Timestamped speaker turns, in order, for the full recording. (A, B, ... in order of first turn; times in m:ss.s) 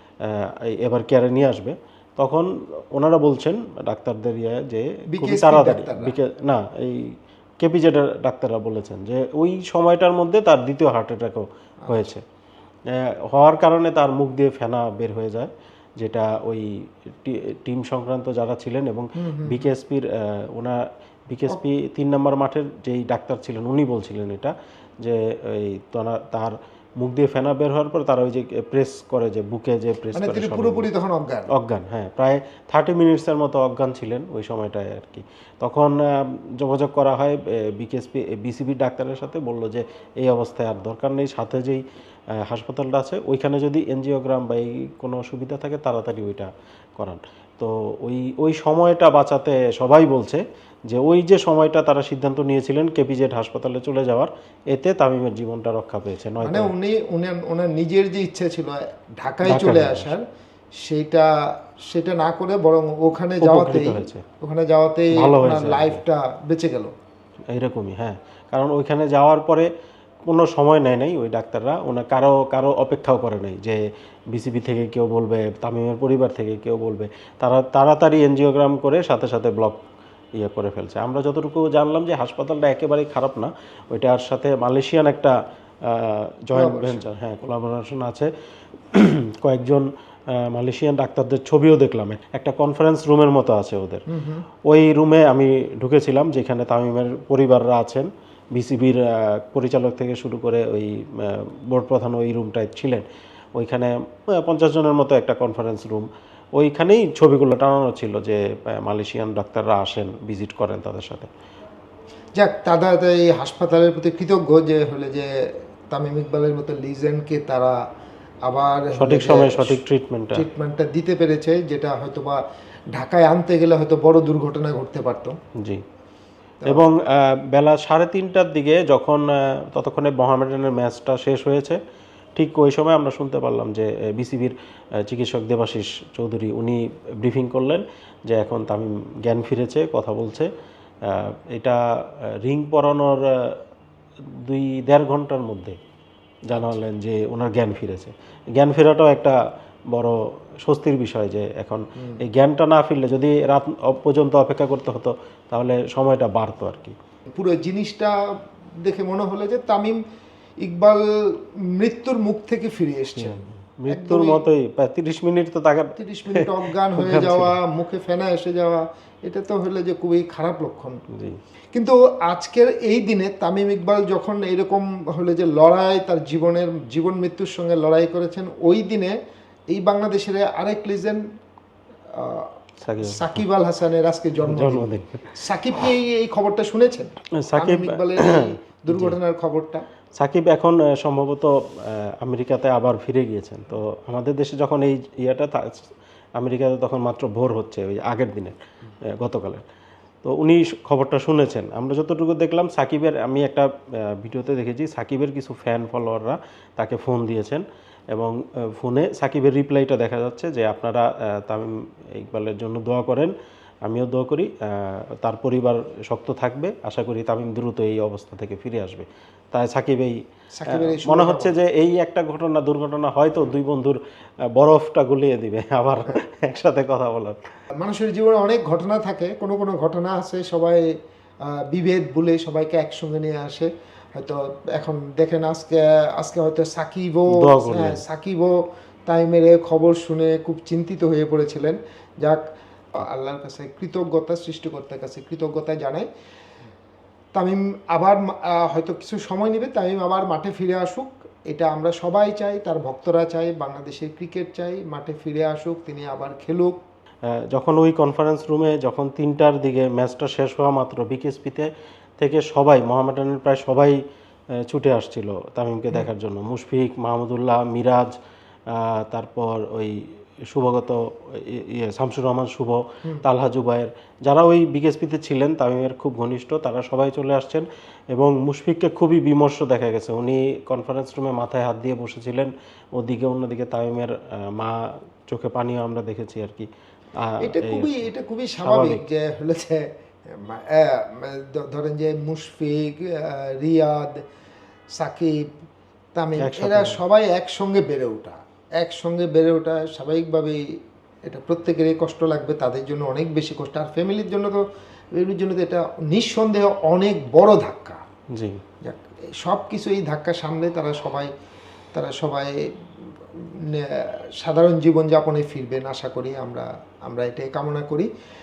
0:00.2-0:12.2 A
0:05.1-0:06.2 B
0:11.8-0:12.1 B
0:12.9-0:30.9 A
0:19.2-0:19.7 B
0:30.1-0:31.5 B
0:31.5-0:41.8 A
0:42.4-0:56.7 A
0:56.4-1:00.2 B
0:59.4-1:00.1 A
1:00.8-1:01.3 B
1:01.9-1:06.9 B
1:03.4-1:04.2 A
1:05.2-1:06.0 A
1:07.5-1:09.7 A
1:10.3-1:13.8 A
1:14.3-1:19.8 A
1:20.4-1:28.3 A
1:26.5-1:27.0 B
1:28.9-1:29.9 A
1:30.4-1:34.0 A
1:34.1-1:34.5 B
1:34.7-1:43.0 A
1:43.6-1:51.3 A
1:52.4-1:55.3 B
1:55.9-1:57.8 B
1:58.5-1:59.8 B
1:59.0-2:00.4 A
2:00.3-2:02.4 B
2:02.9-2:05.4 B
2:06.7-2:11.8 A
2:12.4-2:20.5 A
2:21.0-2:21.8 A
2:22.4-2:23.6 A
2:24.4-2:25.8 A
2:26.5-2:29.4 A
2:26.5-2:26.8 B
2:29.9-2:37.0 A
2:32.0-2:32.2 B
2:37.4-2:38.1 B
2:38.8-2:40.0 B
2:40.6-2:44.4 B
2:43.2-2:47.5 A
2:46.0-2:51.0 B
2:51.1-2:51.4 A
2:51.7-2:59.2 B
2:59.7-3:01.2 B
3:02.2-3:02.5 B
3:02.8-3:03.4 A
3:03.0-3:09.8 B
3:04.4-3:05.3 A
3:07.4-3:09.2 A
3:10.2-3:18.6 A
3:19.1-3:19.6 A
3:20.2-3:33.3 A
3:33.8-3:40.2 A
3:40.5-3:41.6 B
3:40.7-3:44.0 A
3:44.5-3:47.4 A
3:47.8-3:50.8 B
3:51.5-3:58.5 B
3:57.3-3:58.0 A
3:59.1-4:02.4 B
4:03.0-4:06.1 B
4:07.4-4:16.8 B
4:17.5-4:24.0 A
4:24.6-4:28.2 A
4:28.7-4:48.1 A
4:47.4-4:54.2 B
4:48.6-4:49.0 A
4:55.0-4:55.4 B
4:56.2-5:00.6 B
4:56.4-4:57.0 A
5:01.3-5:04.6 B
5:05.2-5:08.0 B
5:08.4-5:08.6 A
5:08.8-5:11.3 B
5:12.0-5:12.6 B
5:14.4-5:18.1 B